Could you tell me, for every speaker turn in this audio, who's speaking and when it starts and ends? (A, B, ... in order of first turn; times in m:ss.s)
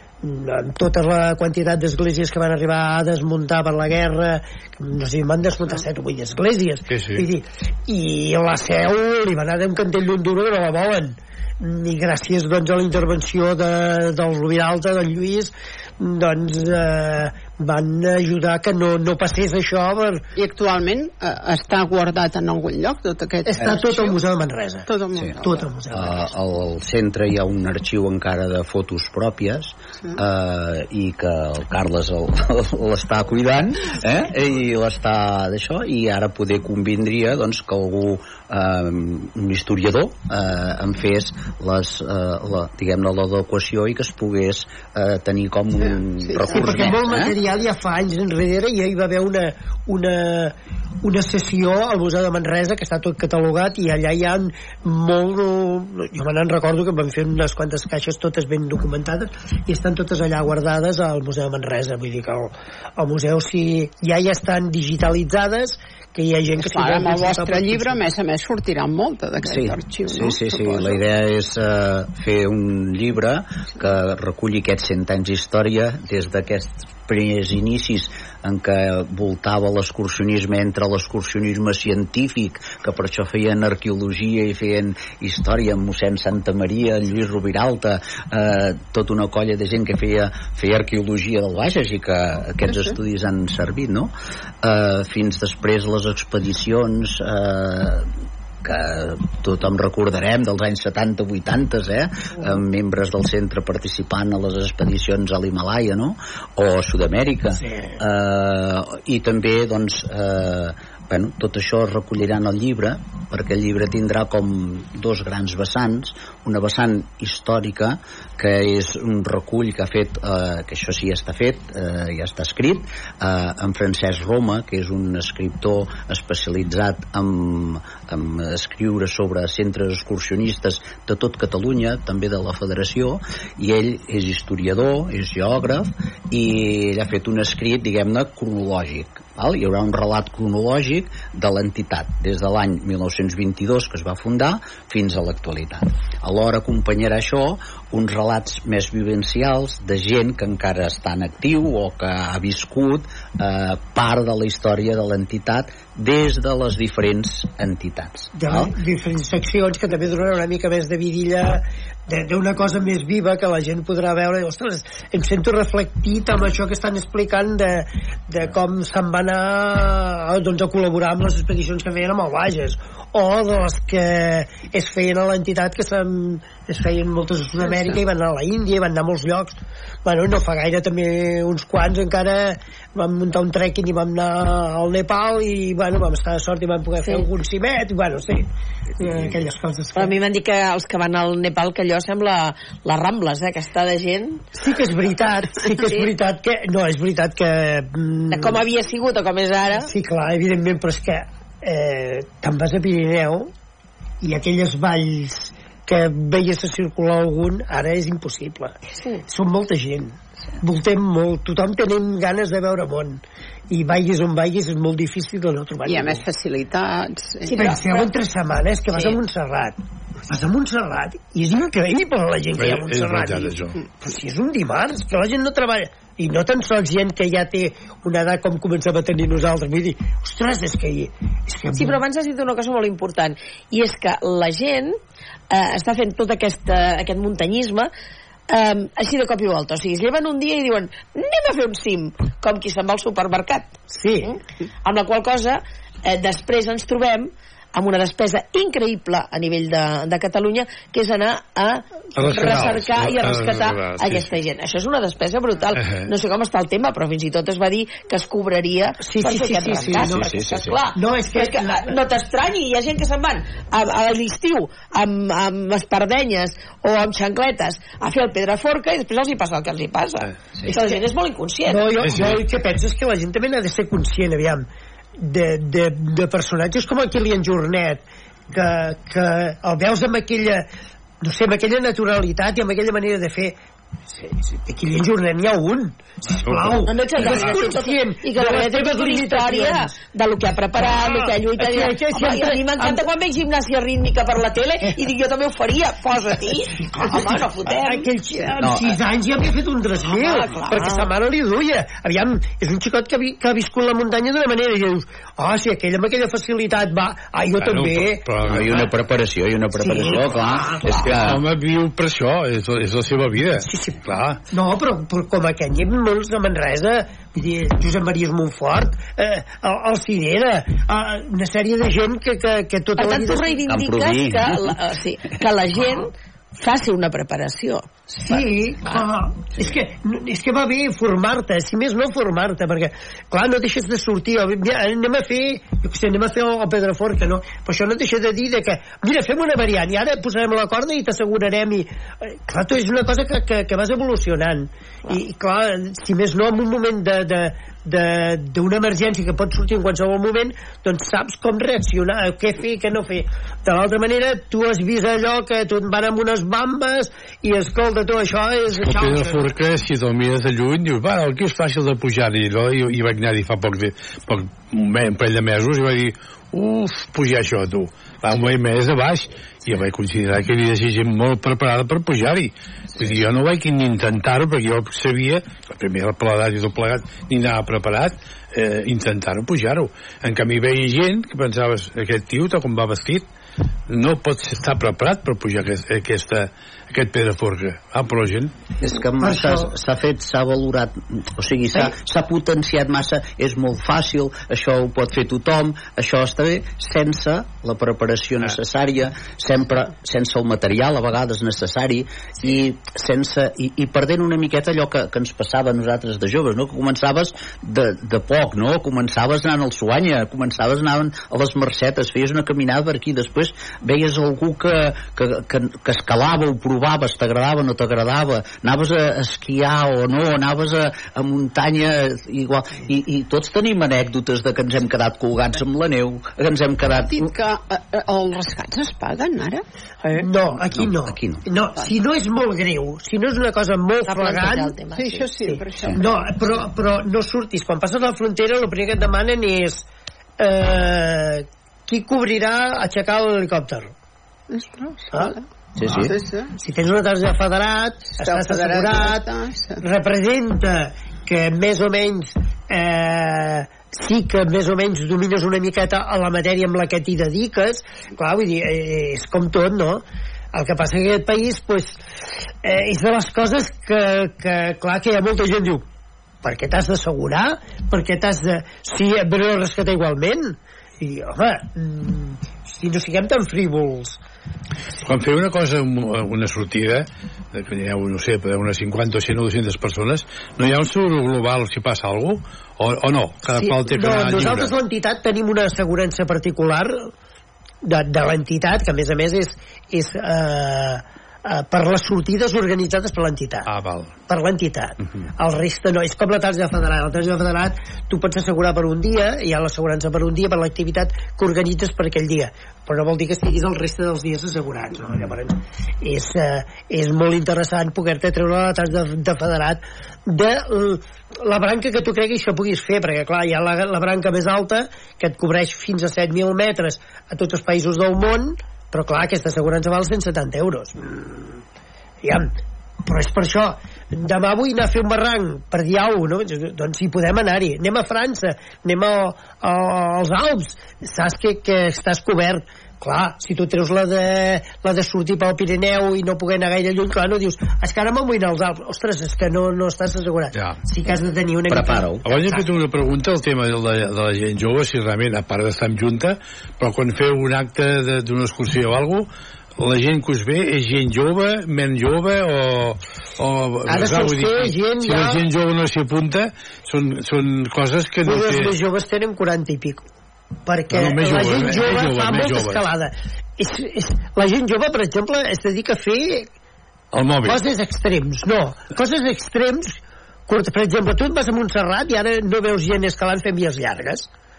0:00.2-0:20.2 A
0:06.9-0:07.2 B
0:20.4-0:24.3 C
0:23.5-0:26.3 A
0:24.9-0:25.7 C
0:25.9-0:47.3 D
0:45.8-0:47.0 C
0:46.5-1:08.0 A
1:06.6-1:11.0 C
1:09.4-1:38.1 D
1:38.6-2:38.7 D
2:38.3-3:10.2 A
3:09.9-3:14.4 E
3:14.5-3:18.6 A
3:18.3-3:19.9 E
3:19.8-3:23.5 A
3:24.2-3:28.7 A
3:29.3-3:36.2 A
3:35.8-3:37.8 C
3:37.5-3:38.0 E
3:37.5-3:39.8 A
3:40.3-3:52.0 A
3:42.6-3:43.8 B
3:51.8-3:55.0 E
3:55.5-3:57.9 E
3:58.5-4:31.9 E
4:03.9-4:04.3 A
4:12.1-4:14.3 B
4:15.8-4:16.1 B
4:19.0-4:20.2 A
4:20.1-4:20.8 D
4:20.9-4:22.0 A
4:30.7-4:31.0 A
4:31.7-4:34.6 A
4:32.0-4:32.4 B
4:35.2-4:40.7 A
4:41.2-4:43.6 A
4:44.1-4:49.9 A
4:46.4-4:47.3 B
4:46.8-4:58.1 E
4:50.7-4:53.1 A
4:56.6-5:08.3 A
4:58.6-4:59.0 D
5:00.0-5:01.1 E
5:07.6-5:08.9 B
5:08.4-5:11.4 D
5:09.8-5:11.1 A
5:11.1-5:14.4 B
5:13.6-5:14.0 A
5:14.5-5:23.6 A
5:23.0-5:28.9 E
5:23.7-5:24.8 D
5:28.2-5:59.5 A
5:58.8-6:23.2 B
6:23.9-6:28.5 B
6:28.8-7:07.3 D
6:29.2-6:29.7 A
7:06.9-7:09.6 C
7:10.2-7:14.8 A
7:10.7-7:11.4 D
7:14.1-7:15.6 E
7:14.9-7:16.2 C
7:15.9-7:19.8 A
7:20.4-7:23.9 A
7:24.5-7:26.5 C
7:25.8-7:26.1 D
7:26.6-7:42.0 A
7:28.2-7:29.8 C
7:42.6-7:45.8 A
7:46.4-7:54.2 A
7:55.0-8:04.7 B
8:03.9-8:07.1 A
8:07.8-8:13.7 A
8:13.6-8:14.2 B
8:14.3-8:41.6 A
8:42.2-8:42.5 A
8:43.0-9:02.7 A
9:01.7-9:02.3 D
9:02.2-9:09.3 B
9:09.8-9:18.7 B
9:13.8-9:15.4 A
9:18.2-9:20.1 A
9:20.6-9:26.5 A
9:20.9-9:22.9 B
9:27.1-9:27.6 B
9:27.4-9:34.3 A